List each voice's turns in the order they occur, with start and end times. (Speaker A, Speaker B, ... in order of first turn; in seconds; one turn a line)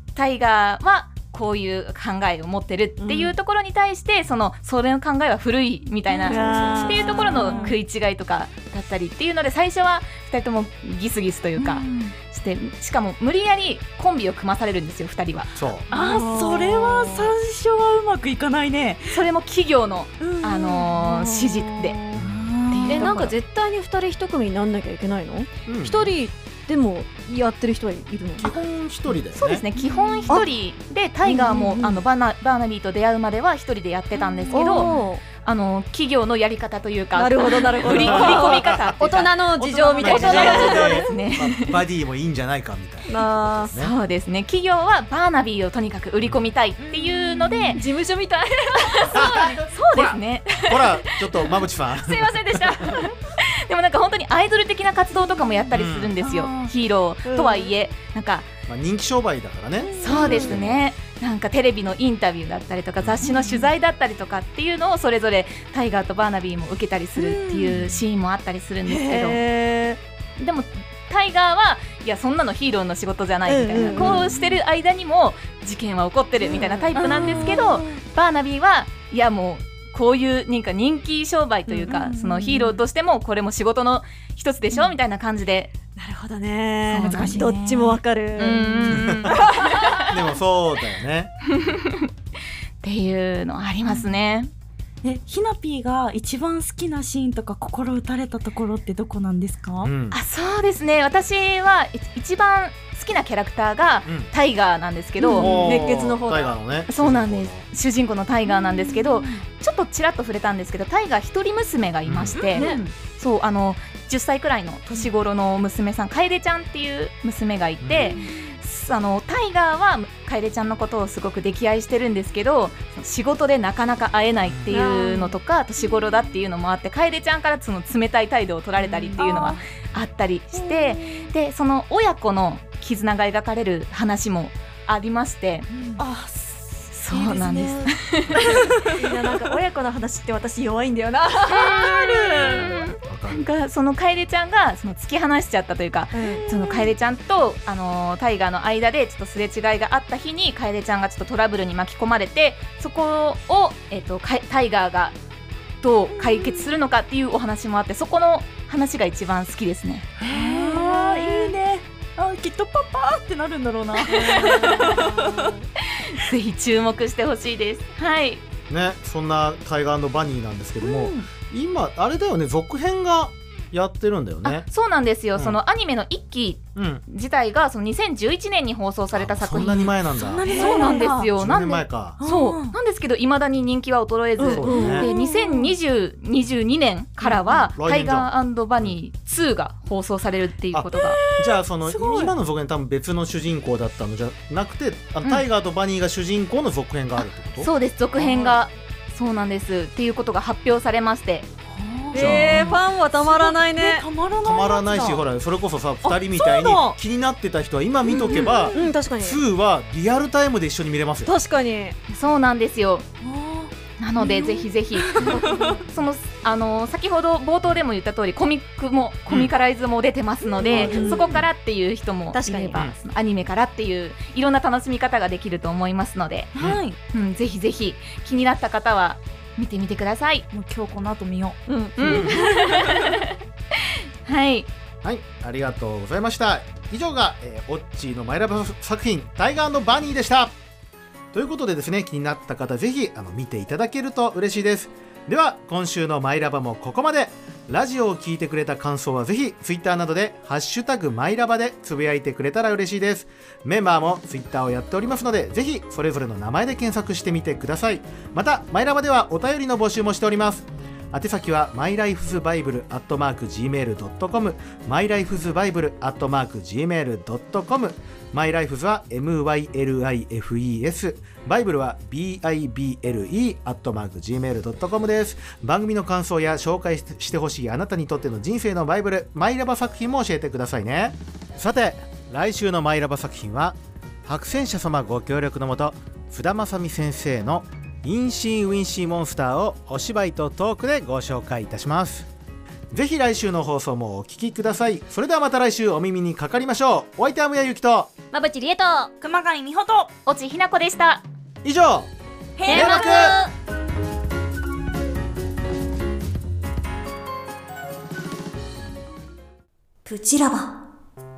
Speaker A: 0.1-15.7
Speaker B: 3.0-3.3
Speaker C: 6.1-7.8
Speaker B: 6.3-7.8
Speaker D: 6.5-7.3
Speaker C: 11.6-12.2
Speaker D: 15.6-15.9
Speaker C: 15.9-19.2
Speaker B: 15.9-17.3
Speaker A: 19.1-22.0
Speaker C: 20.2-21.0
Speaker B: 21.1-22.2
Speaker C: 22.1-23.1
Speaker D: 22.1-22.5
Speaker A: 22.7-23.4
Speaker B: 22.9-28.5
Speaker D: 25.7-26.1
Speaker D: 28.4-29.6
Speaker A: 29.3-41.8
Speaker C: 29.8-30.5
Speaker B: 31.2-32.0
Speaker C: 34.2-35.1
Speaker B: 34.5-35.2
Speaker B: 37.1-41.1
Speaker C: 37.5-38.2
Speaker D: 37.9-39.3
Speaker C: 39.6-41.0
Speaker D: 40.0-43.9
Speaker B: 43.1-43.7
Speaker A: 43.8-47.8
Speaker C: 46.8-47.8
Speaker B: 47.7-49.3
Speaker A: 48.9-58.5
Speaker D: 49.1-53.0
Speaker C: 55.2-56.7
Speaker D: 55.7-56.1
Speaker B: 57.2-57.7
Speaker D: 58.7-60.9
Speaker C: 59.8-60.3
Speaker A: 60.0-69.4
Speaker B: 60.0-60.6
Speaker D: 63.0-63.2
Speaker C: 63.2-63.7
Speaker C: 67.2-67.8
Speaker D: 67.8-68.0
Speaker B: 68.9-70.0
Speaker A: 70.4-85.7
Speaker B: 73.5-74.3
Speaker C: 73.8-74.6
Speaker B: 76.4-77.8
Speaker C: 76.5-78.0
Speaker C: 81.7-82.8
Speaker C: 84.7-85.0
Speaker B: 86.0-90.0
Speaker A: 86.9-87.5
Speaker C: 87.0-89.3
Speaker A: 88.4-90.1
Speaker D: 88.9-89.4
Speaker D: 89.9-91.3
Speaker A: 91.5-92.1
Speaker A: 92.8-94.5
Speaker C: 93.9-94.1
Speaker C: 95.0-99.9
Speaker D: 99.8-100.2
Speaker A: 100.1-105.6
Speaker D: 104.0-104.3
Speaker B: 105.2-106.5
Speaker D: 105.4-107.7
Speaker C: 105.4-105.7
Speaker A: 106.9-135.7
Speaker C: 108.5-109.4
Speaker D: 112.1-112.5
Speaker C: 112.3-112.9
Speaker B: 112.5-112.8
Speaker D: 117.8-118.2
Speaker C: 118.0-118.5
Speaker D: 124.5-124.8
Speaker B: 124.7-125.4
Speaker C: 128.8-129.6
Speaker B: 129.2-129.5
Speaker C: 135.7-136.1
Speaker B: 136.0-142.9
Speaker A: 136.9-138.7
Speaker C: 138.5-138.9
Speaker A: 141.5-155.2
Speaker D: 143.1-143.5
Speaker B: 146.1-146.4
Speaker C: 146.2-146.9
Speaker A: 155.8-160.1
Speaker C: 156.1-156.7
Speaker C: 160.2-165.5
Speaker B: 160.3-161.5
Speaker B: 164.1-165.7
Speaker A: 164.2-164.7
Speaker A: 165.9-168.4
Speaker D: 168.7-174.7
Speaker C: 170.8-171.3
Speaker A: 174.4-191.2
Speaker D: 176.8-177.0
Speaker D: 179.1-180.5
Speaker C: 180.2-181.3
Speaker B: 180.5-181.0
Speaker D: 181.1-182.2
Speaker C: 182.2-182.8
Speaker B: 184.4-185.2
Speaker D: 184.5-185.1
Speaker C: 184.7-185.6
Speaker D: 187.7-188.3
Speaker D: 190.7-197.7
Speaker C: 190.9-192.3
Speaker A: 197.2-201.5
Speaker C: 198.2-198.6
Speaker C: 201.7-205.2
Speaker B: 202.1-204.1
Speaker D: 202.2-202.7
Speaker D: 204.4-211.3
Speaker C: 206.0-207.0
Speaker B: 208.1-209.4
Speaker C: 208.2-208.9
Speaker B: 211.3-212.0
Speaker A: 212.1-213.1
Speaker C: 213.2-215.9
Speaker A: 214.0-226.5
Speaker B: 215.2-215.8
Speaker D: 219.3-219.5
Speaker B: 220.6-221.3
Speaker D: 220.7-221.5
Speaker C: 220.8-221.3
Speaker B: 222.3-222.9
Speaker C: 226.5-227.0
Speaker D: 226.6-226.8
Speaker A: 227.1-230.5
Speaker C: 230.5-233.1
Speaker B: 231.7-232.7
Speaker A: 232.0-233.3
Speaker D: 232.0-232.4
Speaker A: 233.9-234.7
Speaker D: 235.0-240.6
Speaker D: 241.3-292.3
Speaker D: 292.9-298.1
Speaker B: 298.3-299.1
Speaker C: 299.2-300.1
Speaker A: 300.3-301.2
Speaker D: 301.6-302.1
Speaker C: 302.6-303.2
Speaker D: 302.7-303.4
Speaker B: 302.7-303.5
Speaker B: 310.1-310.8